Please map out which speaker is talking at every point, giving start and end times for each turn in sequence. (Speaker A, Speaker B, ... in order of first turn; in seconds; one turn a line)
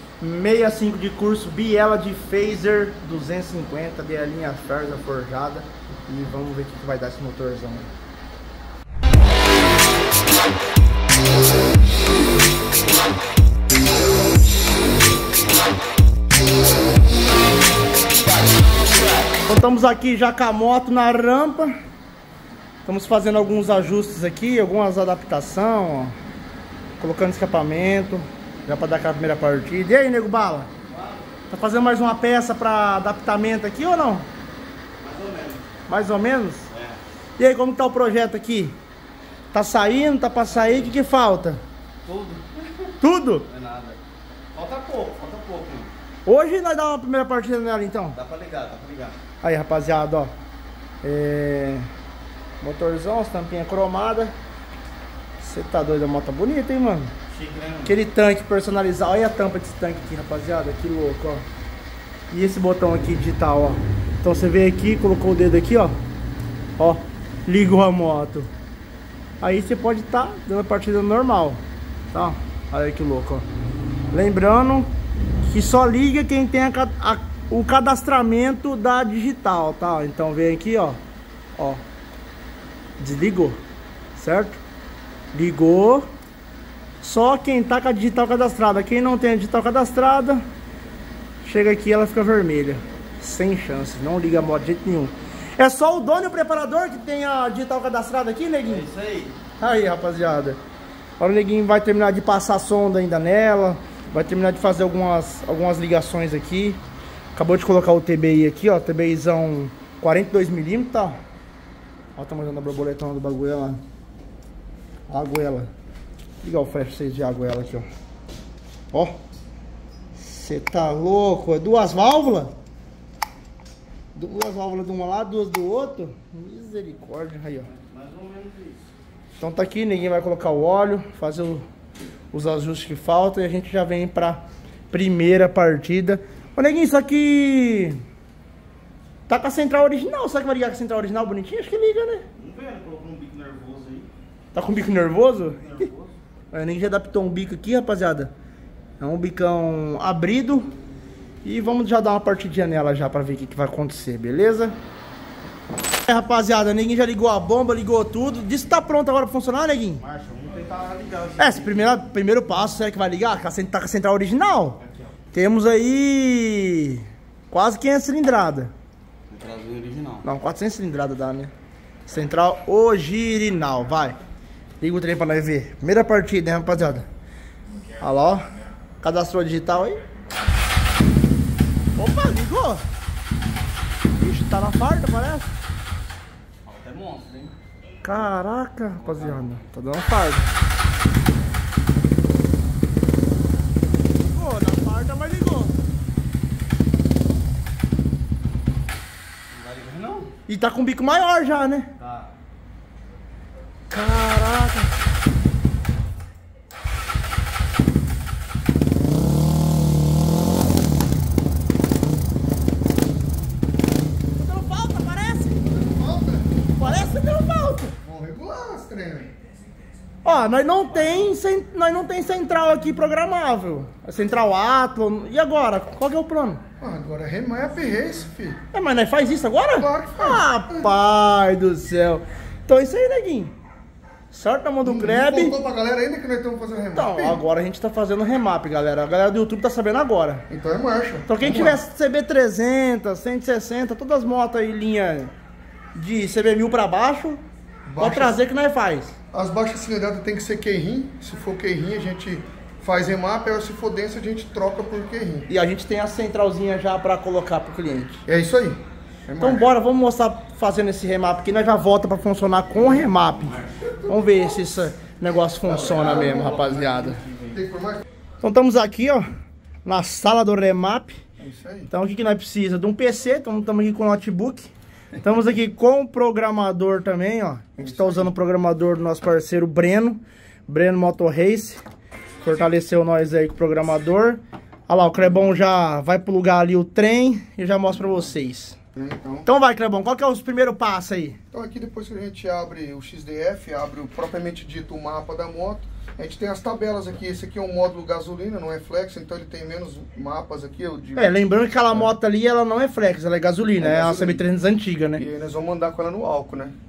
Speaker A: 0.2-7.9
Speaker A: 19.5-21.8
Speaker A: 22.9-26.1
Speaker A: 27.0-30.7
Speaker B: 30.9-31.3
Speaker A: 31.5-34.3
Speaker B: 35.0-35.7
Speaker A: 35.9-36.7
Speaker B: 36.7-37.0
Speaker A: 37.4-38.8
Speaker A: 39.5-41.6
Speaker B: 40.5-40.9
Speaker B: 42.0-44.0
Speaker A: 43.0-43.5
Speaker B: 44.5-45.9
Speaker A: 46.3-48.2
Speaker B: 48.1-49.2
Speaker A: 49.4-50.3
Speaker A: 51.0-51.9
Speaker A: 52.6-54.3
Speaker A: 55.4-57.1
Speaker B: 57.3-58.0
Speaker A: 57.9-61.4
Speaker A: 62.3-66.0
Speaker A: 66.8-68.5
Speaker A: 69.4-71.6
Speaker A: 72.1-73.5
Speaker A: 74.1-74.9
Speaker A: 75.5-81.0
Speaker A: 81.6-81.8
Speaker A: 83.0-83.6
Speaker A: 84.2-84.6
Speaker A: 85.3-86.1
Speaker A: 87.0-90.4
Speaker A: 91.4-98.9
Speaker B: 98.7-99.4
Speaker A: 99.6-100.6
Speaker A: 101.2-106.8
Speaker A: 107.3-111.2
Speaker A: 112.2-113.8
Speaker A: 115.1-115.7
Speaker A: 116.4-117.9
Speaker A: 120.2-122.5
Speaker A: 124.2-127.7
Speaker B: 127.7-128.9
Speaker A: 129.4-131.7
Speaker A: 132.3-138.0
Speaker A: 139.3-142.2
Speaker B: 142.4-144.1
Speaker A: 144.5-145.6
Speaker B: 145.4-146.2
Speaker A: 146.5-148.3
Speaker A: 149.0-150.7
Speaker A: 151.4-154.8
Speaker A: 156.0-160.0
Speaker B: 160.0-161.9
Speaker A: 161.4-164.8
Speaker A: 165.3-168.7
Speaker B: 169.3-170.2
Speaker A: 170.2-171.5
Speaker A: 172.1-174.2
Speaker A: 174.8-177.1
Speaker A: 178.0-178.5
Speaker A: 179.0-180.0
Speaker A: 182.0-182.8
Speaker A: 184.1-185.5
Speaker B: 186.7-187.5
Speaker A: 188.0-190.4
Speaker B: 189.0-189.6
Speaker A: 194.2-195.7
Speaker B: 199.5-200.3
Speaker A: 200.5-201.9
Speaker B: 202.0-202.3
Speaker A: 203.9-204.9
Speaker A: 214.4-215.6
Speaker C: 215.6-216.5
Speaker A: 216.8-218.0
Speaker C: 218.0-219.3
Speaker A: 220.2-226.6
Speaker C: 226.8-228.6
Speaker A: 228.7-233.5
Speaker C: 229.7-230.9
Speaker A: 234.3-235.6
Speaker C: 234.8-237.4
Speaker A: 236.9-240.4
Speaker C: 240.5-241.8
Speaker A: 241.3-245.3
Speaker A: 246.0-247.4
Speaker C: 247.9-248.4
Speaker A: 248.0-249.1
Speaker C: 249.3-255.5
Speaker A: 255.5-258.2
Speaker C: 258.3-259.7
Speaker A: 259.4-267.2
Speaker C: 264.0-264.6
Speaker B: 265.7-267.6
Speaker C: 265.7-266.7
Speaker C: 267.5-268.0
Speaker A: 268.4-269.3
Speaker A: 269.9-271.2
Speaker C: 271.4-271.9
Speaker A: 271.9-281.8
Speaker C: 277.8-278.3
Speaker A: 282.4-288.8
Speaker C: 288.9-289.5
Speaker A: 289.5-291.4
Speaker C: 291.5-302.1
Speaker A: 301.2-305.2
Speaker C: 303.8-304.4
Speaker C: 305.2-306.8